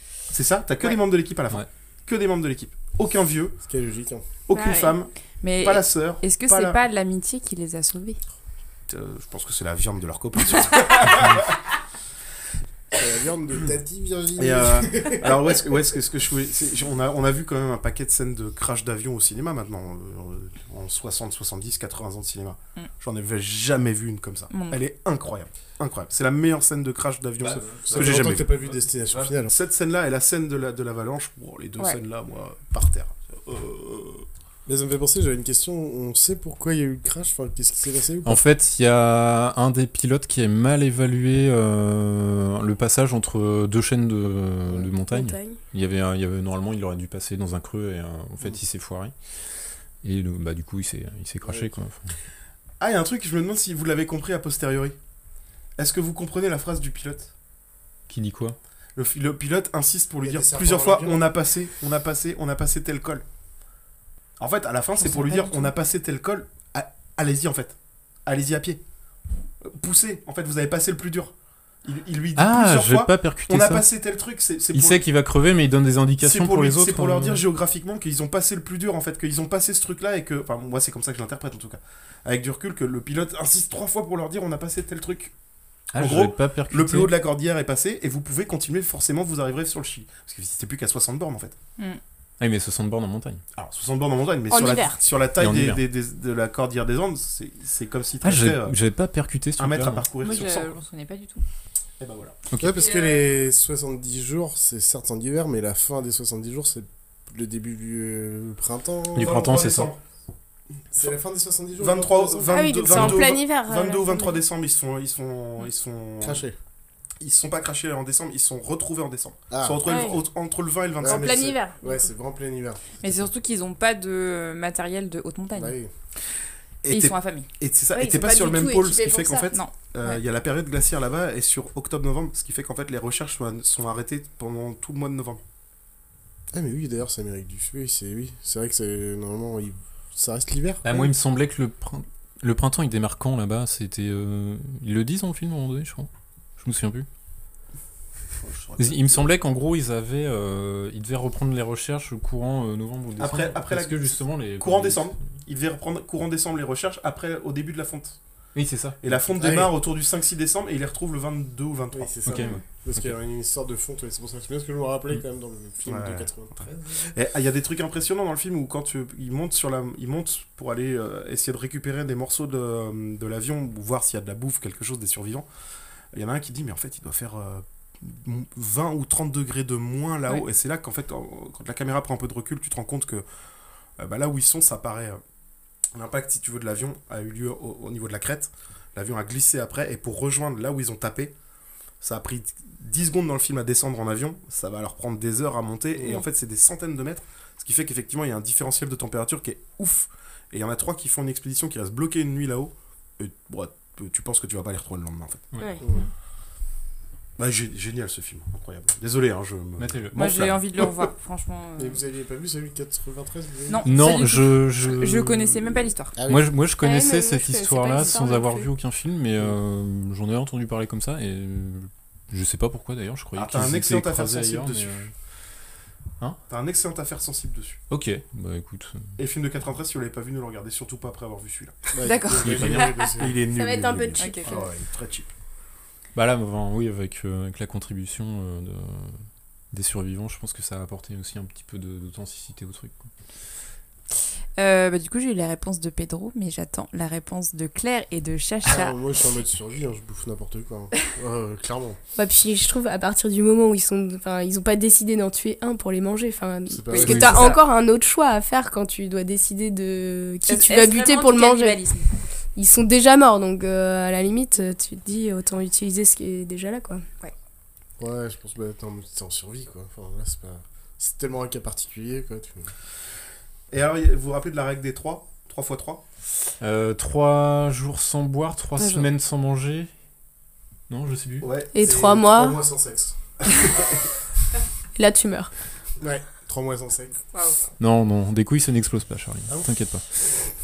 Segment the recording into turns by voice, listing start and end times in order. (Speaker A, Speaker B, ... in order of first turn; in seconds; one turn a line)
Speaker A: 0.3-3.6
Speaker B: 3.6-4.2
Speaker A: 4.5-6.8
Speaker C: 4.5-4.9
Speaker D: 5.3-8.2
Speaker A: 8.9-11.6
Speaker B: 12.9-15.5
Speaker A: 14.4-34.3
Speaker D: 24.5-24.8
Speaker E: 27.5-28.4
Speaker B: 27.6-29.5
Speaker B: 34.6-38.4
Speaker E: 38.2-49.1
Speaker C: 45.1-45.6
Speaker E: 50.0-52.1
Speaker B: 51.5-51.7
Speaker A: 52.8-55.0
Speaker A: 55.8-57.3
Speaker E: 58.1-58.6
Speaker A: 59.0-63.2
Speaker B: 60.2-61.3
Speaker A: 64.4-67.7
Speaker A: 68.2-68.8
Speaker A: 69.6-71.3
Speaker A: 71.8-75.0
Speaker E: 72.3-73.9
Speaker E: 74.7-77.4
Speaker A: 76.2-85.3
Speaker E: 85.9-87.1
Speaker A: 85.9-91.5
Speaker E: 92.4-93.4
Speaker A: 93.5-98.8
Speaker C: 94.5-95.0
Speaker E: 95.4-95.8
Speaker E: 98.2-100.1
Speaker A: 99.6-100.8
Speaker D: 100.2-101.4
Speaker A: 102.0-102.4
Speaker E: 102.5-102.8
Speaker B: 102.6-109.6
Speaker E: 109.2-109.9
Speaker A: 109.2-110.0
Speaker B: 110.9-113.2
Speaker A: 111.8-116.4
Speaker C: 112.5-114.4
Speaker B: 116.2-116.5
Speaker A: 117.2-121.6
Speaker B: 119.5-120.0
Speaker C: 119.8-120.2
Speaker B: 121.0-123.3
Speaker C: 121.0-122.0
Speaker D: 123.0-125.8
Speaker B: 125.5-125.9
Speaker A: 126.8-135.4
Speaker D: 126.9-127.5
Speaker C: 127.9-129.5
Speaker D: 129.5-130.2
Speaker B: 136.5-141.1
Speaker E: 140.8-147.1
Speaker A: 148.4-149.3
Speaker E: 148.8-155.4
Speaker A: 153.2-158.2
Speaker E: 158.5-159.0
Speaker A: 159.0-162.6
Speaker B: 159.3-159.7
Speaker B: 161.9-166.9
Speaker E: 162.3-163.1
Speaker A: 165.8-175.5
Speaker A: 176.1-183.2
Speaker A: 184.0-185.2
Speaker A: 185.9-191.3
Speaker A: 192.0-205.4
Speaker A: 207.4-211.1
Speaker E: 209.8-210.5
Speaker D: 210.1-212.0
Speaker B: 211.8-213.8
Speaker D: 213.7-216.2
Speaker E: 213.8-225.1
Speaker B: 216.2-216.5
Speaker C: 216.8-218.7
Speaker A: 223.3-225.0
Speaker A: 226.5-227.8
Speaker E: 227.9-229.2
Speaker A: 229.2-231.9
Speaker B: 231.9-233.4
Speaker D: 232.0-233.1
Speaker E: 232.4-233.0
Speaker A: 232.5-235.3
Speaker C: 233.5-234.7
Speaker D: 234.2-234.5
Speaker E: 236.1-243.1
Speaker D: 244.6-248.9
Speaker B: 248.6-252.0
Speaker C: 252.2-261.8
Speaker B: 256.7-257.5
Speaker D: 256.9-257.6
Speaker E: 257.0-257.5
Speaker D: 260.4-262.1
Speaker C: 262.6-267.0
Speaker B: 268.0-272.7
Speaker A: 273.7-276.0
Speaker E: 276.6-279.9
Speaker D: 278.8-279.1
Speaker E: 280.9-281.5
Speaker A: 281.4-282.1
Speaker C: 281.7-282.6
Speaker B: 281.8-283.4
Speaker C: 284.9-285.5
Speaker B: 286.0-287.2
Speaker D: 287.3-287.6
Speaker E: 287.8-290.2